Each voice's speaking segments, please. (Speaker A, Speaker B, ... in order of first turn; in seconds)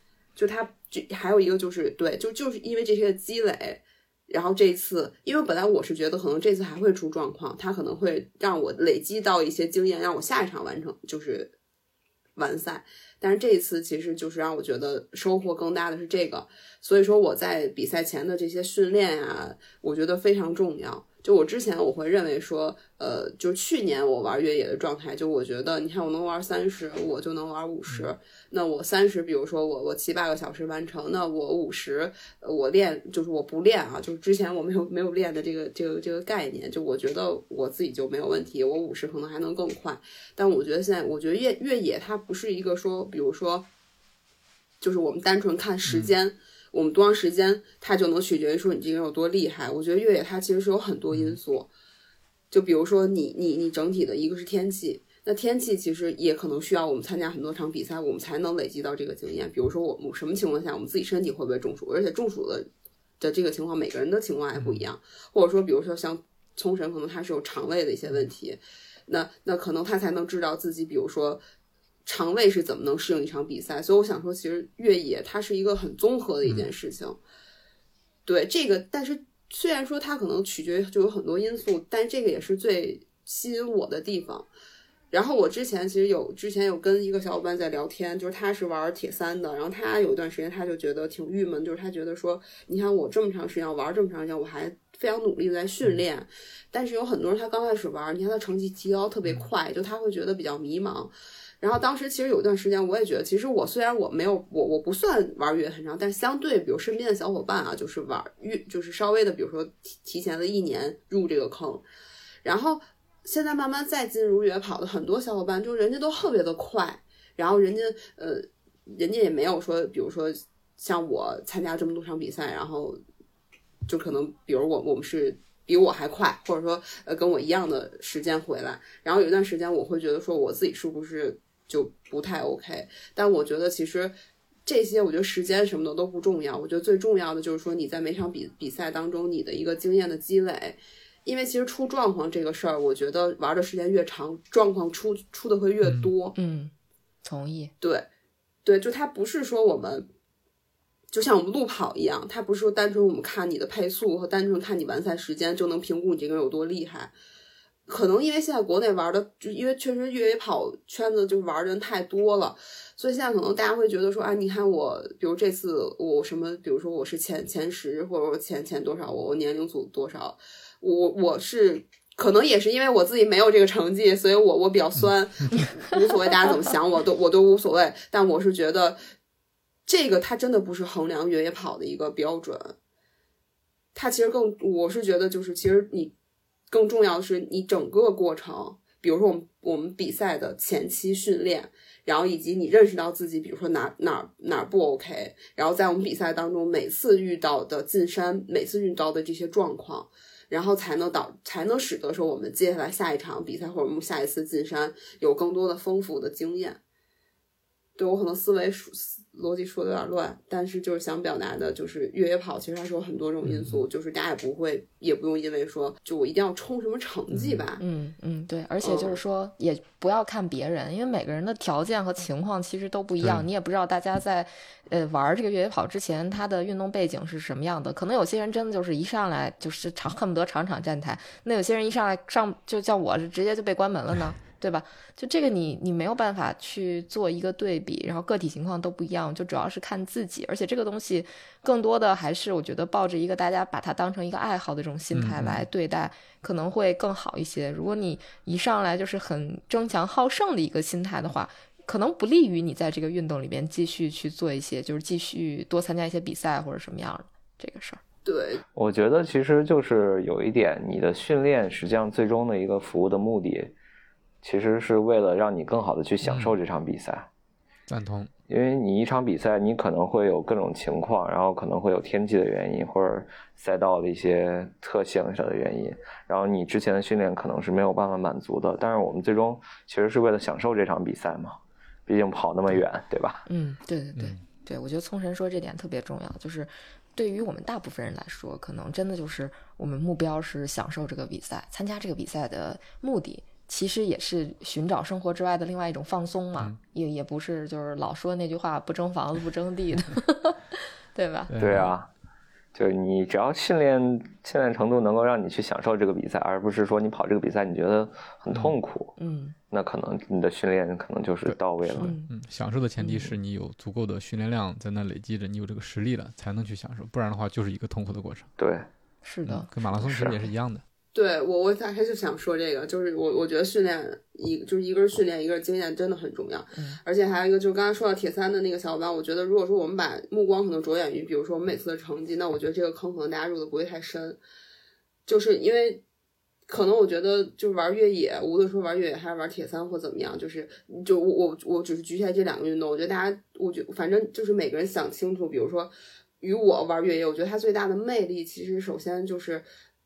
Speaker A: 0.4-11.5, 12.4-43.7, 44.8-51.7, 52.5-62.7, 63.2-71.4, 72.1-77.2, 78.3-84.5, 85.1-111.8, 112.4-123.0, 123.9-134.1, 134.7-146.4, 147.8-148.1, 148.7-150.1, 151.1-157.1, 157.9-179.0, 179.9-182.8, 183.9-186.1, 186.7-206.8, 208.0-217.8, 218.8-219.2, 258.2-258.6, 321.1-334.4, 335.3-336.0, 336.7-349.7
Speaker B: 45.9-46.1, 51.1-51.4, 64.6-64.9, 145.8-146.1, 175.0-175.7, 213.4-213.8, 217.3-217.7, 223.2-223.4, 245.1-245.7, 266.2-266.6, 267.9-268.3, 284.2-284.4, 301.5-301.9, 311.5-318.5, 319.4-320.8
Speaker C: 146.4-146.7, 147.2-147.7, 217.8-258.0, 283.5-301.5, 309.2-309.6, 312.0-312.3, 313.0-313.4, 319.2-319.7, 326.8-327.0
Speaker D: 258.8-263.8, 264.4-267.3, 268.5-283.5, 301.6-302.1, 302.7-309.1, 309.7-312.2, 318.6-318.9, 320.0-320.4